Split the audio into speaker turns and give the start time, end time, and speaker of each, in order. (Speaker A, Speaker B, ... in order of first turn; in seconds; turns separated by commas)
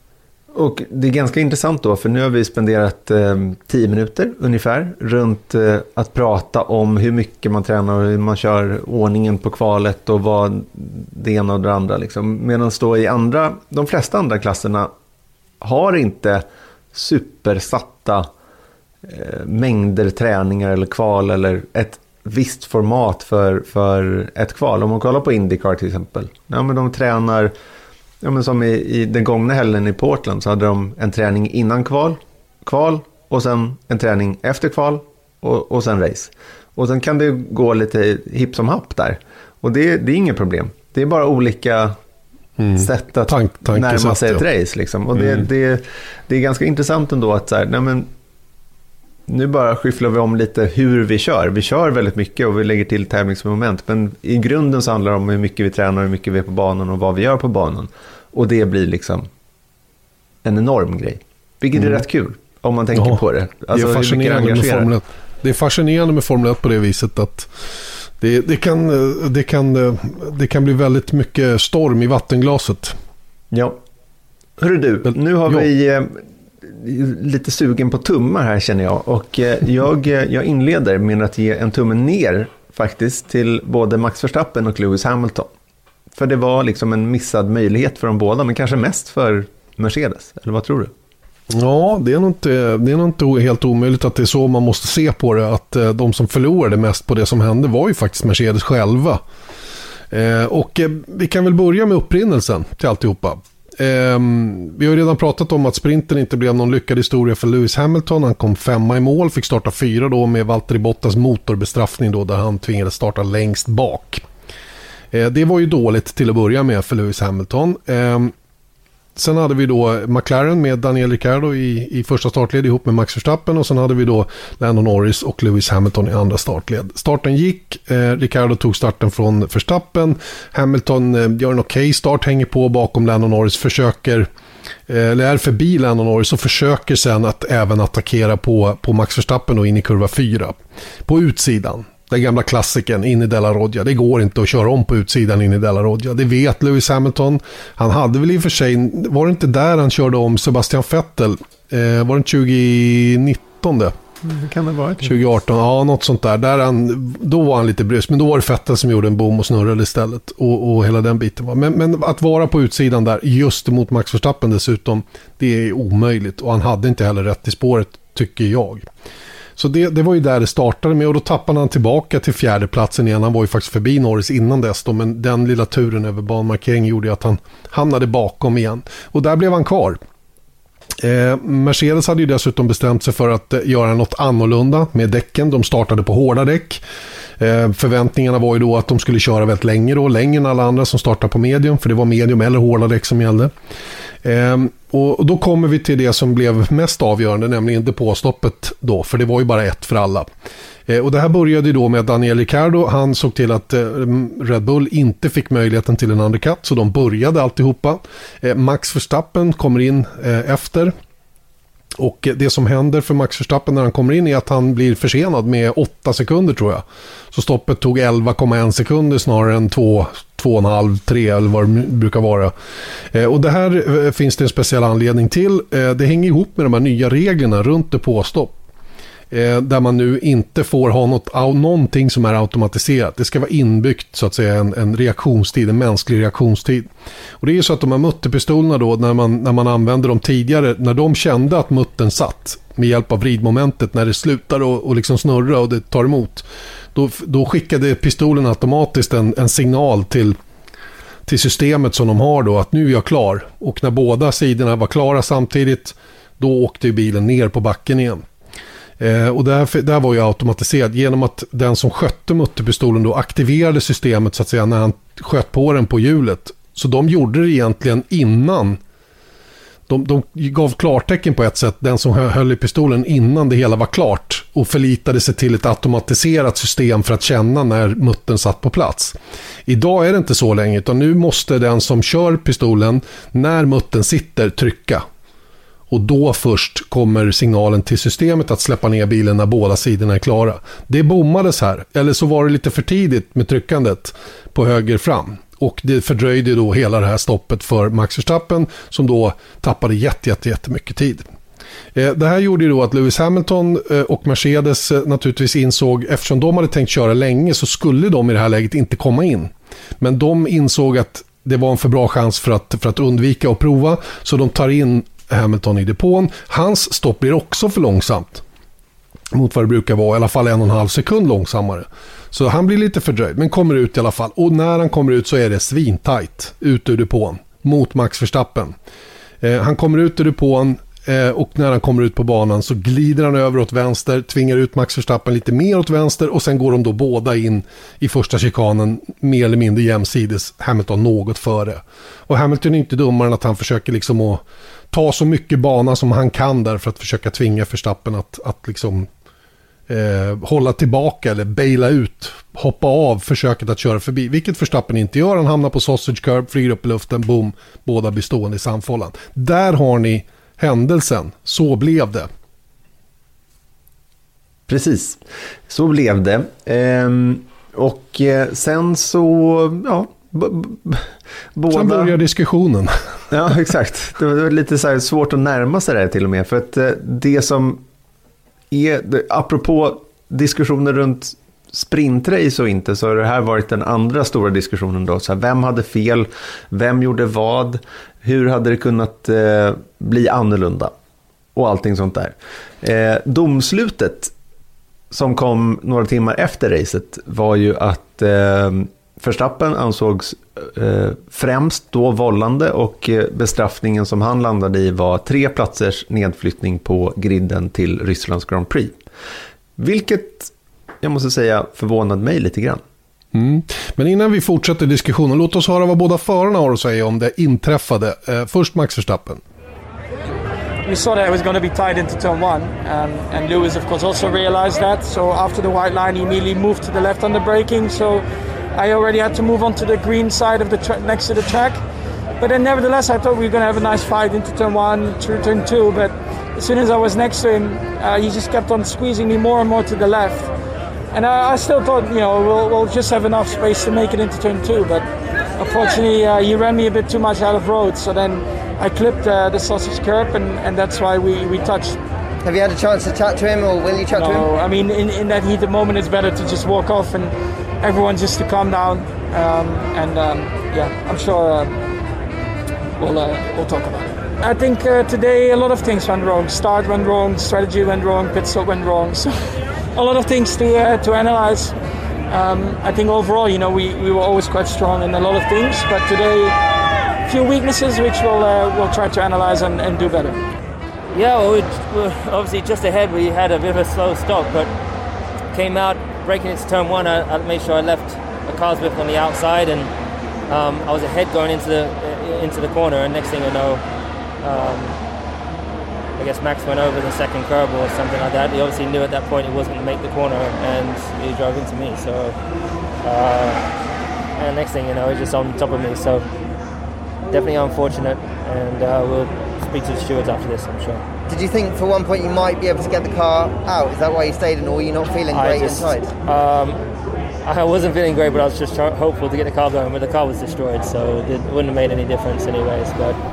Speaker A: 0.5-14.9, Speaker A: 15.6-18.3, Speaker A: 19.0-27.5, Speaker A: 28.2-42.0, Speaker B: 42.6-44.4, Speaker A: 42.8-48.1, Speaker B: 45.1-45.5, Speaker A: 49.3-59.3, Speaker A: 60.4-64.9, Speaker B: 62.9-67.5, Speaker B: 68.2-73.0, Speaker A: 73.5-73.8, Speaker A: 74.6-85.5, Speaker B: 75.0-75.7, Speaker A: 86.1-90.9, Speaker B: 91.5-99.2, Speaker B: 100.1-114.2, Speaker B: 115.1-118.3, Speaker B: 119.2-134.3, Speaker B: 134.9-153.9, Speaker A: 154.2-155.2, Speaker B: 155.0-168.8, Speaker B: 169.6-180.0, Speaker B: 181.0-186.8, Speaker B: 187.4-193.5, Speaker B: 194.2-200.3, Speaker B: 200.9-210.9, Speaker B: 212.0-222.5, Speaker B: 223.1-228.5, Speaker B: 229.3-236.9, Speaker B: 237.4-250.3, Speaker B: 251.2-258.2, Speaker B: 259.0-268.8, Speaker B: 269.9-285.0, Speaker B: 285.9-301.2, Speaker B: 301.9-318.4, Speaker B: 319.3-328.7, Speaker B: 329.4-349.1, Speaker B: 349.9-362.3, Speaker A: 364.7-372.1, Speaker B: 371.7-372.9, Speaker A: 373.3-377.8, Speaker A: 378.7-390.9, Speaker A: 391.5-394.3, Speaker A: 395.1-408.9, Speaker A: 409.8-412.8, Speaker B: 413.3-419.4, Speaker C: 420.8-431.8, Speaker C: 432.4-440.5, Speaker C: 441.1-452.0, Speaker D: 452.4-454.5, Speaker C: 454.1-461.8, Speaker C: 463.0-471.7, Speaker C: 472.3-476.5, Speaker C: 477.2-480.4, Speaker E: 481.1-484.7, Speaker E: 485.5-489.9, Speaker E: 490.5-493.8, Speaker E: 494.4-495.0, Speaker E: 496.2-502.4, Speaker E: 503.0-503.6, Speaker E: 504.4-506.2, Speaker E: 507.3-511.0, Speaker D: 511.3-516.1, Speaker E: 515.3-516.8, Speaker E: 517.4-523.2